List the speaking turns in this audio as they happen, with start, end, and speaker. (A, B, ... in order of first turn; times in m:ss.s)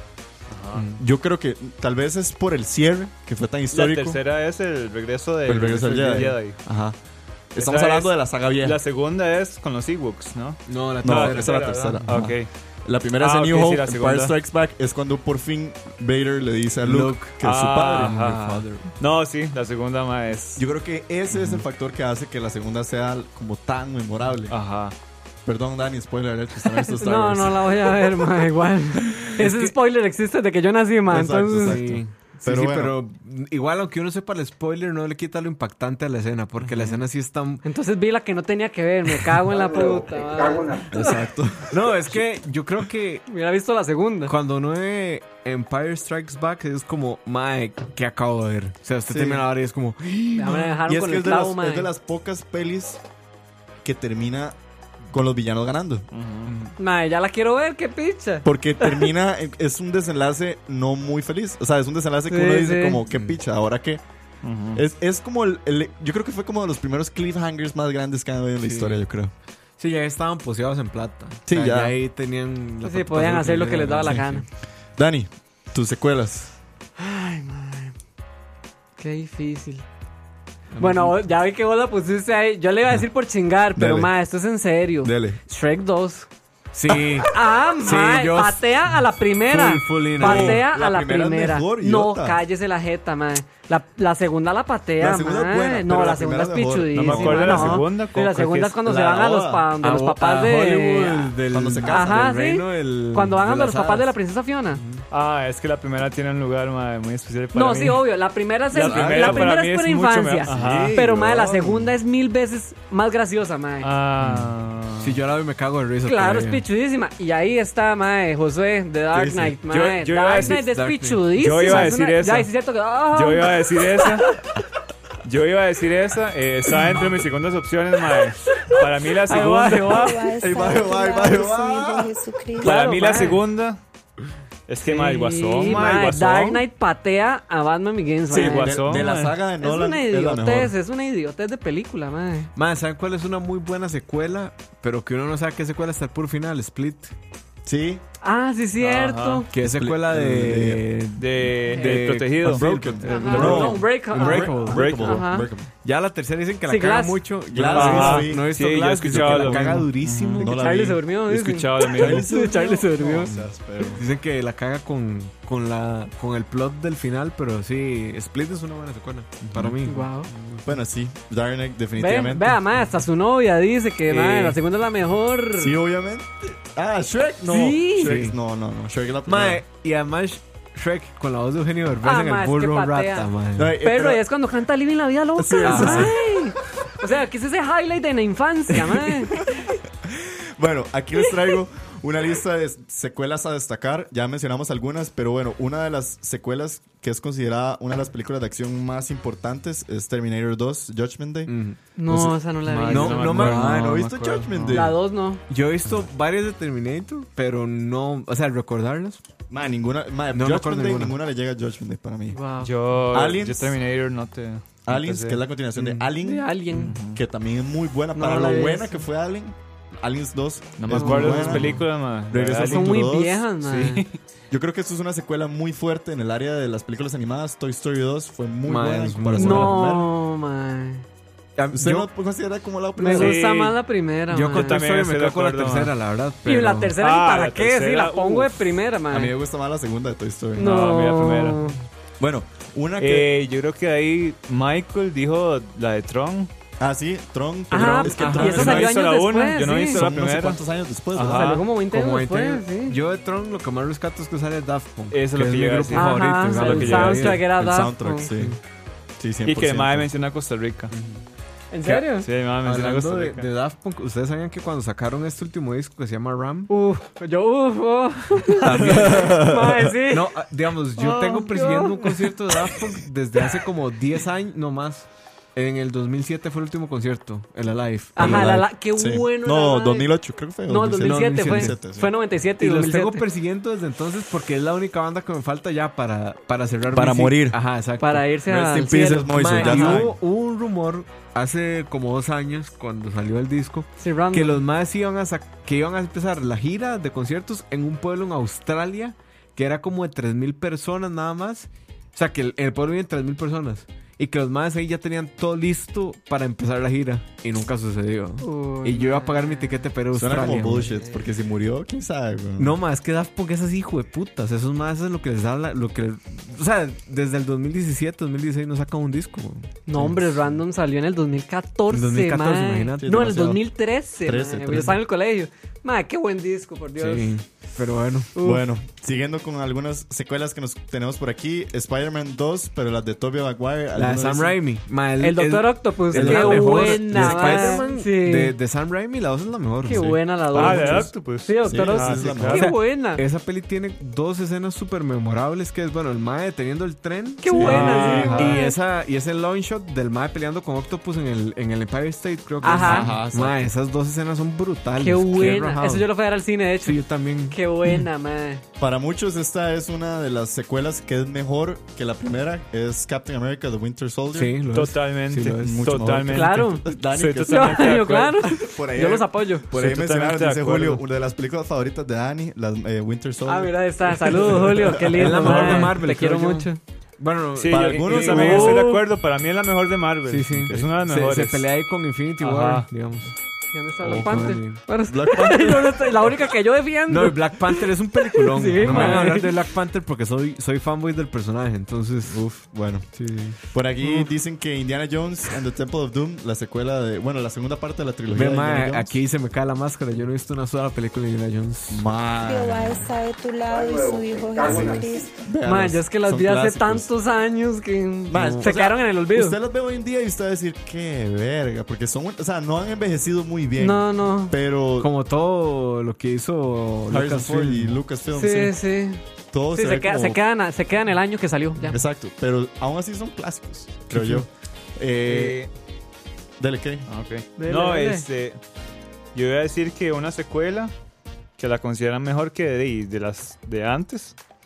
0:00.5-0:00.9 A
0:00.7-0:01.0 B
0:01.0-0:04.2 C
0:03.7-0:06.6 A
0:05.4-0:07.0 C
0:06.0-0:06.3 B
0:07.5-0:08.8 C
0:07.6-0:12.5 A
0:10.7-0:12.3 B
0:11.0-0:18.7 C
0:13.2-0:14.3 A
0:16.8-0:17.4 B
0:17.4-0:20.6 A
0:18.0-0:18.7 B
0:20.6-0:24.6 C
0:21.3-0:21.6 B
0:24.5-0:25.0 A
0:25.4-0:28.2 C
0:26.8-0:31.8 D
0:29.4-0:29.7 B
0:31.1-0:33.0 C
0:31.6-0:37.6 B
0:37.6-0:41.2 D
0:40.8-0:42.2 C
0:41.7-0:43.3 B
0:43.3-0:44.3 D
0:44.3-0:50.8 B
0:49.1-0:49.5 C
0:50.3-0:51.9 D
0:50.8-0:53.0 C
0:53.8-0:54.6 C
0:55.1-0:56.6 C
0:56.1-0:56.6 A
0:56.8-0:59.1 D
0:58.4-1:04.0 C
1:02.3-1:03.0 D
1:04.4-1:04.8 A
1:04.7-1:09.3 C
1:08.6-1:09.0 B
1:09.8-1:14.4 B
1:11.4-1:11.9 C
1:12.8-1:14.4 D
1:15.0-1:16.5 C
1:17.0-1:18.0 D
1:19.0-1:19.8 D
1:20.7-1:21.2 B
1:20.8-1:26.3 D
1:23.7-1:24.1 C
1:25.0-1:25.4 C
1:26.7-1:28.6 B
1:27.2-1:41.3 D
1:29.5-1:30.6 B
1:30.2-1:32.4 C
1:35.0-1:37.9 C
1:36.9-1:38.8 A
1:38.8-1:39.7 C
1:39.8-1:44.1 B
1:41.5-1:42.3 C
1:41.9-1:44.8 D
1:44.7-1:45.0 B
1:45.1-1:48.1 A
1:47.5-1:53.9 D
1:48.7-1:51.0 A
1:48.7-1:49.5 B
1:50.5-1:51.7 B
1:51.0-1:51.9 C
1:53.8-1:55.2 A
1:54.2-1:56.6 B
1:56.0-2:04.2 D
1:59.1-1:59.6 C
1:59.8-2:00.6 A
2:00.4-2:01.9 B
2:01.4-2:02.5 A
2:03.1-2:04.3 A
2:05.2-2:10.2 A
2:09.3-2:10.1 D
2:09.7-2:12.7 E
2:10.4-2:12.2 C
2:12.6-2:13.4 D
2:12.6-2:13.8 A
2:14.7-2:16.6 A
2:14.8-2:19.1 D
2:18.3-2:20.7 C
2:18.3-2:19.4 A
2:19.6-2:22.5 D
2:22.6-2:27.1 B
2:27.6-2:28.0 C
2:28.2-2:29.5 D
2:28.8-2:29.4 A
2:29.5-2:34.9 B
2:29.6-2:30.9 C
2:31.2-2:33.8 A
2:31.7-2:32.0 D
2:32.4-2:35.7 C
2:33.0-2:35.5 D
2:34.7-2:35.2 A
2:35.8-2:40.6 B
2:36.7-2:37.2 D
2:37.5-2:41.0 C
2:37.7-2:40.5 A
2:40.4-2:43.3 D
2:41.3-2:42.3 A
2:41.8-2:44.0 C
2:43.2-2:50.7 B
2:49.4-2:49.8 A
2:49.8-2:50.3 D
2:50.6-2:52.6 C
2:52.0-2:55.8 D
2:54.1-2:54.6 B
2:55.6-2:59.6 C
2:57.5-2:58.2 D
2:58.0-2:58.3 B
2:59.3-3:03.8 B
3:02.0-3:09.7 D
3:03.6-3:04.2 C
3:05.4-3:06.2 C
3:05.6-3:06.1 B
3:09.3-3:21.5 C
3:21.5-3:21.8 B
3:22.0-3:23.4 D
3:22.1-3:22.4 C
3:22.7-3:24.8 A
3:22.9-3:24.1 B
3:23.2-3:25.0 C
3:24.7-3:25.4 D
3:25.5-3:29.2 B
3:29.5-3:32.4 C
3:30.3-3:31.2 B
3:32.3-3:32.7 D
3:32.6-3:35.4 A
3:33.1-3:33.8 C
3:34.9-3:36.6 C
3:35.8-3:36.1 B
3:36.2-3:37.0 D
3:36.7-3:37.2 A
3:37.1-3:43.4 C
3:38.1-3:39.0 D
3:40.8-3:43.1 A
3:40.9-3:41.8 D
3:42.7-3:44.0 D
3:43.6-3:44.2 A
3:44.5-3:50.1 C
3:48.6-3:49.8 B
3:49.4-3:51.0 D
3:51.6-3:52.1 B
3:51.7-3:53.4 C
3:53.0-3:54.8 D
3:53.1-3:53.8 A
3:54.3-3:57.0 B
3:54.5-3:55.9 A
3:56.4-3:59.3 D
3:57.0-3:58.7 A
3:59.1-4:00.8 C
4:00.6-4:01.8 D
4:00.6-4:01.6 A
4:02.2-4:03.3 C
4:03.0-4:06.5 A
4:06.8-4:08.9 C
4:07.7-4:10.0 D
4:08.0-4:08.5 B
4:08.2-4:10.6 A
4:09.9-4:11.6 C
4:11.1-4:11.6 A
4:11.2-4:13.0 D
4:11.9-4:17.5 B
4:15.1-4:17.4 A
4:15.9-4:18.3 D
4:17.5-4:18.6 C
4:18.3-4:18.6 B
4:19.2-4:20.1 C
4:19.4-4:20.9 A
4:20.9-4:21.2 B
4:21.7-4:22.3 D
4:21.9-4:23.5 A
4:22.6-4:26.7 B
4:26.7-4:30.3 D
4:28.6-4:29.4 B
4:28.6-4:29.9 C
4:30.1-4:38.6 B
4:31.0-4:32.7 D
4:38.1-4:40.1 D
4:38.2-4:42.1 C
4:40.7-4:43.3 D
4:41.0-4:41.8 B
4:42.6-4:48.3 B
4:46.9-4:47.6 C
4:48.0-4:50.0 D
4:48.4-4:50.1 C
4:49.3-5:10.9 B
4:54.0-4:54.6 D
5:08.4-5:09.9 D
5:10.1-5:12.8 C
5:12.6-5:20.2 B
5:19.9-5:27.3 D
5:21.9-5:23.6 B
5:23.0-5:23.4 C
5:24.2-5:25.0 C
5:27.0-5:28.3 B
5:28.3-5:28.6 D
5:28.4-5:34.6 C
5:34.0-5:40.2 B
5:35.2-5:38.6 D
5:36.1-5:37.8 C
5:39.8-5:43.2 D
5:40.0-5:42.6 C
5:40.5-5:42.7 A
5:42.5-5:56.1 B
5:47.4-5:48.8 D
5:47.6-5:48.7 C
5:47.6-5:48.6 A
5:52.6-5:53.1 D
5:52.6-5:53.7 C
5:55.0-5:58.6 D
5:56.8-5:58.0 B
5:58.8-6:04.6 C
6:04.3-6:06.2 B
6:04.7-6:08.6 A
6:05.6-6:15.3 C
6:06.3-6:09.7 D
6:09.7-6:11.0 A
6:13.4-6:16.8 D
6:15.1-6:18.7 B
6:15.4-6:15.9 A
6:17.6-6:21.7 A
6:17.7-6:18.8 C
6:18.1-6:19.0 D
6:20.3-6:23.3 B
6:20.6-6:20.9 C
6:22.4-6:22.9 A
6:23.7-6:29.5 D
6:24.0-6:24.8 B
6:24.0-6:24.5 C
6:25.0-6:26.3 C
6:27.1-6:32.6 B
6:28.8-6:29.3 C
6:32.3-6:33.1 C
6:33.1-6:33.6 B
6:33.7-6:39.1 C
6:38.3-6:42.1 B
6:41.9-6:43.1 C
6:42.4-6:45.3 E
6:44.6-6:47.1 C
6:44.6-6:45.1 B
6:45.6-6:49.6 D
6:48.3-6:55.1 C
6:48.3-6:48.7 B
6:53.8-6:54.6 D
6:55.0-6:58.0 B
6:57.1-6:58.8 C
6:58.3-6:59.2 D
6:59.5-7:00.4 C
6:59.7-7:02.0 D
7:01.9-7:05.6 C
7:04.1-7:04.5 B
7:05.2-7:05.7 A
7:06.6-7:07.0 C
7:07.1-7:08.6 A
7:07.6-7:08.2 D
7:09.3-7:10.9 A
7:11.6-7:14.3 A